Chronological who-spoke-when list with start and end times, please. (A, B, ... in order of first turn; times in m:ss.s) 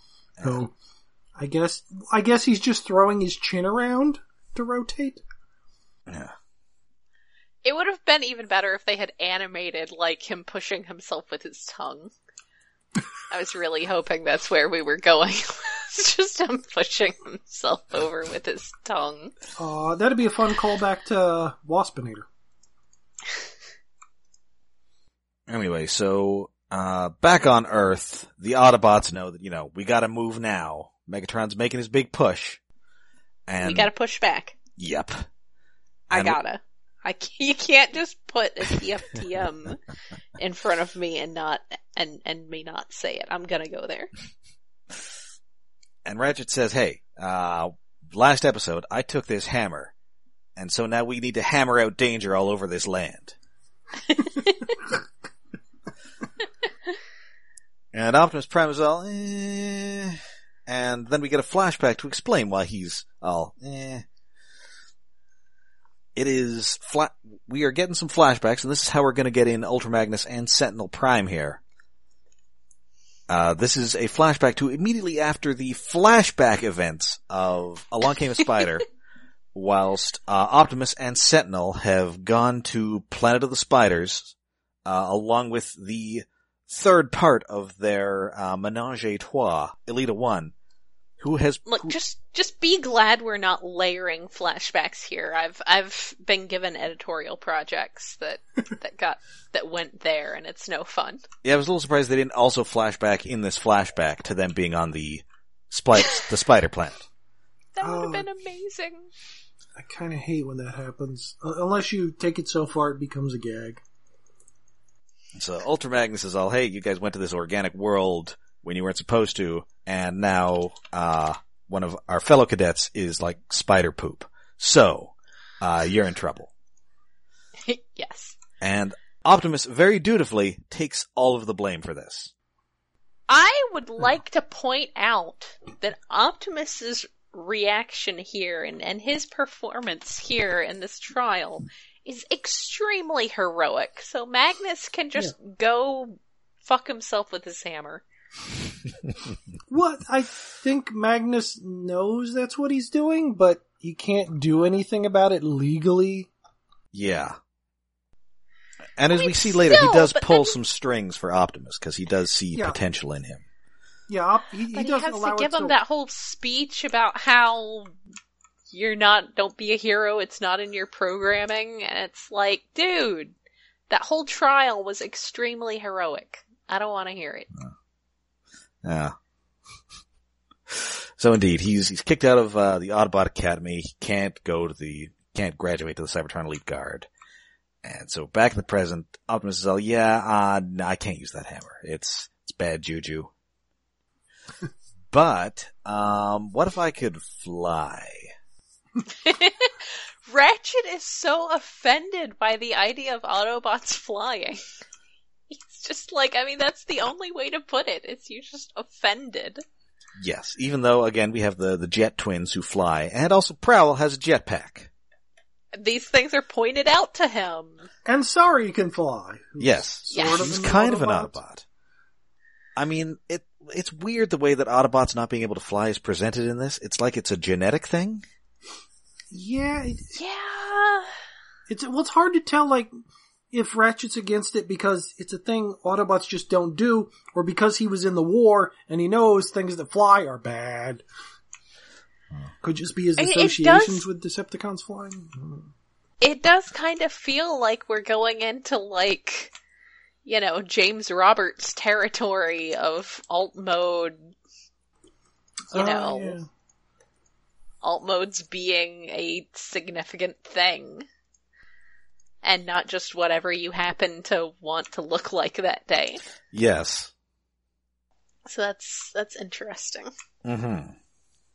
0:00.4-0:00.6 A
0:00.4-0:00.7 B
0:01.4-0:05.2 B
0:06.1-0:06.3 A
0:07.6-0:12.1 C
0:13.3-0:19.3 C
0:19.6-0:22.3 B
0:25.5-0:32.6 A
0:33.5-0:33.9 A
0:33.6-0:34.6 C
0:34.8-0:35.2 A
0:36.1-0:39.8 C
0:36.1-0:36.4 A
0:40.4-0:44.1 C
0:46.0-0:49.9 A
0:50.6-0:53.3 A
0:54.1-0:54.6 C
0:57.9-1:04.0 A
1:06.1-1:11.6 A
1:13.3-1:18.8 A
1:19.5-1:24.3 A
1:24.8-1:30.5 A
1:31.2-1:32.0 A
1:31.7-1:41.2 C
1:41.4-1:47.0 A
1:47.7-1:49.1 C
1:47.8-1:48.3 B
1:49.8-1:53.8 B
1:55.3-2:06.5 A
2:07.6-2:08.4 C
2:08.6-2:12.3 A
2:13.3-2:28.0 C
2:29.7-2:36.3 B
2:36.9-2:37.4 A
2:39.0-2:43.4 A
2:39.1-2:40.6 C
2:44.1-2:45.8 B
2:44.7-2:47.9 C
2:48.7-2:53.3 C
2:53.9-2:57.5 C
2:58.8-2:59.1 A
3:00.7-3:07.1 A
3:07.8-3:13.3 A
3:15.1-3:18.3 A
3:19.1-3:24.7 C
3:25.5-3:29.6 C
3:30.2-3:34.9 A
3:35.7-3:37.9 C
3:38.0-3:41.4 B
3:39.6-3:41.6 A
3:40.1-3:40.5 C
3:42.8-3:48.2 A
3:49.3-3:50.1 B
3:50.1-3:51.1 C
3:51.7-3:52.9 B
3:53.5-4:01.0 B
4:02.6-4:05.7 B
4:03.2-4:04.0 C
4:06.2-4:09.5 C
4:10.2-4:14.3 C
4:15.7-4:16.5 B
4:15.7-4:16.4 C
4:17.8-4:21.0 C
4:22.4-4:26.2 C
4:26.5-4:27.1 A
4:28.4-4:30.1 C
4:30.4-4:31.0 A